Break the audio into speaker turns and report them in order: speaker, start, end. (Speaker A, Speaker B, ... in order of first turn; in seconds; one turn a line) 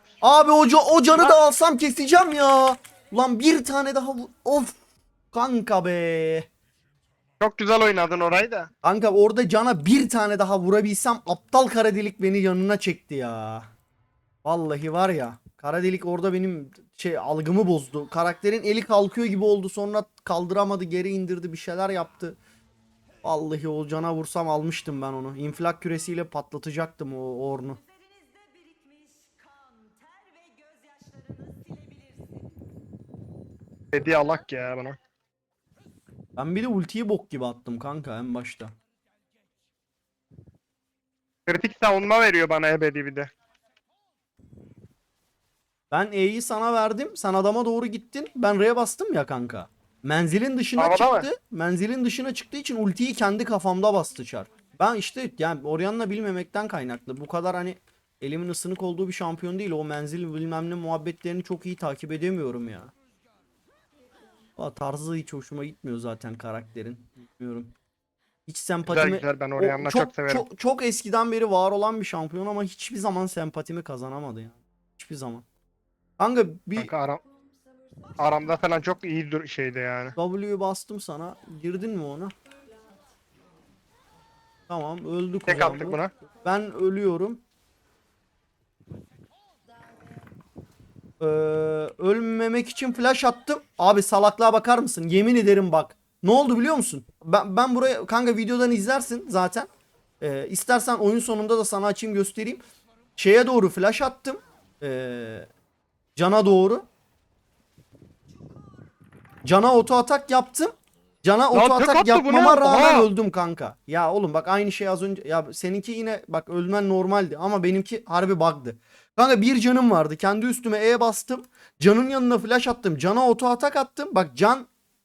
Speaker A: 0.2-4.8
Speaker A: 5.3-6.5
Speaker B: 7.4-8.7
Speaker A: 8.8-13.7
Speaker A: 14.4-22.4
Speaker A: 23.2-27.8
Speaker B: 33.9-35.0
Speaker A: 36.4-38.7
Speaker B: 41.5-43.3
Speaker A: 45.9-62.9
Speaker B: 50.8-51.3
Speaker A: 64.6-67.8
Speaker A: 68.5-75.5
Speaker B: 68.9-70.5
Speaker A: 76.2-76.9
Speaker B: 76.8-77.2
Speaker B: 78.2-80.2
Speaker A: 80.2-82.3
Speaker A: 84.7-87.4
Speaker B: 85.5-86.1
Speaker A: 91.2-99.7
Speaker A: 100.2-102.6
Speaker A: 103.2-105.5
Speaker A: 106.2-106.9
Speaker A: 109.5-124.7
Speaker B: 111.5-113.1